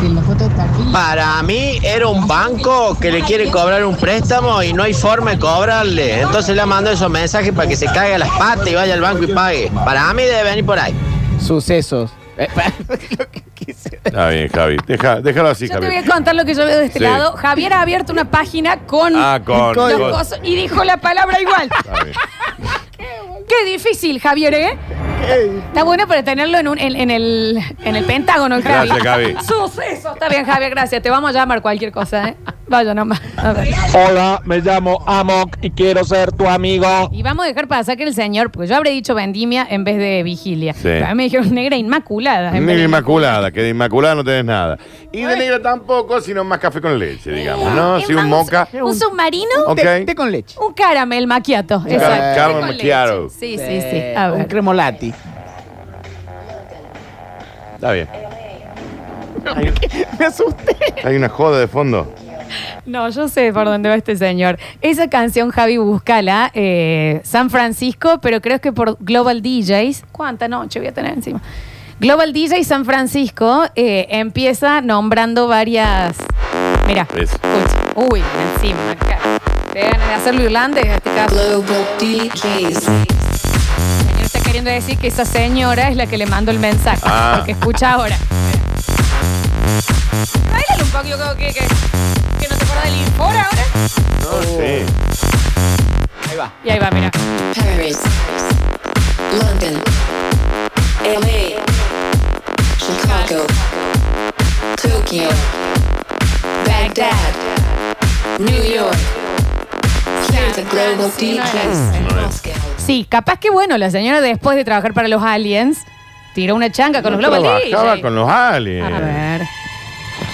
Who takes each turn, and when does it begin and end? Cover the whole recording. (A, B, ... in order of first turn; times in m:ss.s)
0:00.9-0:11.0 A
0:11.4-0:14.1 B
0:14.1-0:16.0 C
0:15.6-0:21.8 D
0:16.9-0:17.2 C
0:19.1-0:20.2 C
0:19.5-0:20.1 B
0:21.8-0:22.2 C
0:23.4-0:24.8 D
0:25.2-0:25.7 B
0:25.7-0:34.0 D
0:28.6-0:29.4 C
0:33.9-0:37.1 E
0:37.1-0:43.4 D
0:40.8-0:41.1 C
0:42.5-0:48.8 C
0:47.3-0:49.7 D
0:48.7-0:49.0 B
0:49.6-0:50.6 B
0:49.6-0:50.1 C
0:50.6-0:54.6 D
0:51.9-0:52.7 B
0:51.9-0:53.3 C
0:53.5-0:55.2 B
0:57.8-0:58.1 C
0:59.4-1:01.0 B
1:01.0-1:02.1 C
1:02.8-1:11.4 D
1:12.0-1:16.3 D
1:16.8-1:21.8 D
1:17.1-1:17.4 C
1:21.3-1:22.8 F
1:24.0-1:28.2 D
1:27.0-1:27.5 C
1:30.4-1:31.7 D
1:32.4-1:33.7 D
1:34.2-1:34.9 C
1:34.3-1:34.8 B
1:36.3-1:36.5 B
1:36.6-1:37.2 D
1:37.6-1:38.0 F
1:39.3-1:39.8 F
1:41.0-1:41.6 F
1:42.8-1:43.5 F
1:43.0-1:43.5 D
1:44.9-1:45.4 F
1:46.6-1:47.4 D
1:48.4-1:49.0 F
1:48.5-1:48.8 D
1:50.2-1:52.1 D
1:50.3-1:52.7 F
1:52.0-1:52.3 C
1:52.8-1:58.1 D
1:57.0-1:59.3 C
1:58.8-1:59.5 D